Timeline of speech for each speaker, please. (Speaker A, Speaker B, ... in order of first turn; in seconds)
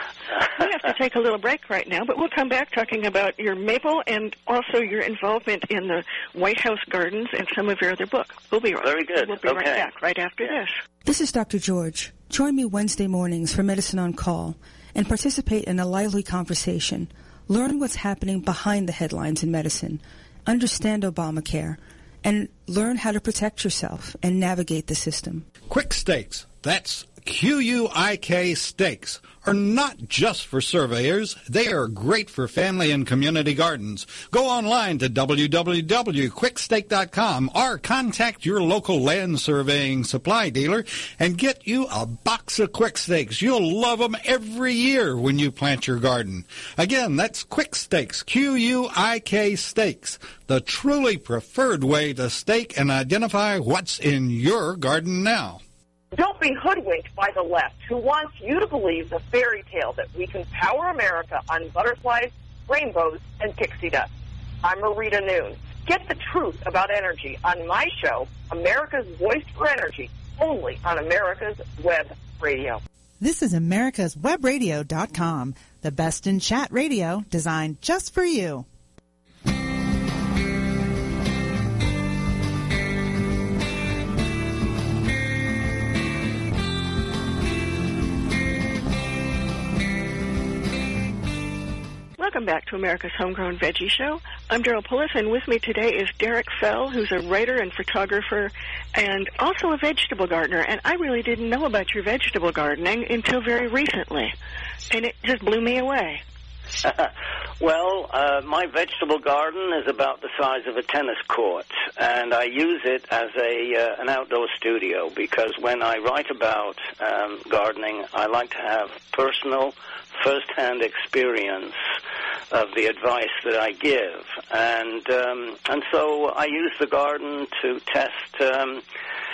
Speaker A: 0.6-10.7, 92.2-104.3, 104.9-106.2
Speaker B: 8.8-9.9, 106.8-121.8, 122.5-128.8
Speaker C: 11.0-25.5
Speaker D: 25.7-55.6
Speaker E: 56.1-64.1, 64.6-72.8
Speaker F: 73.2-78.7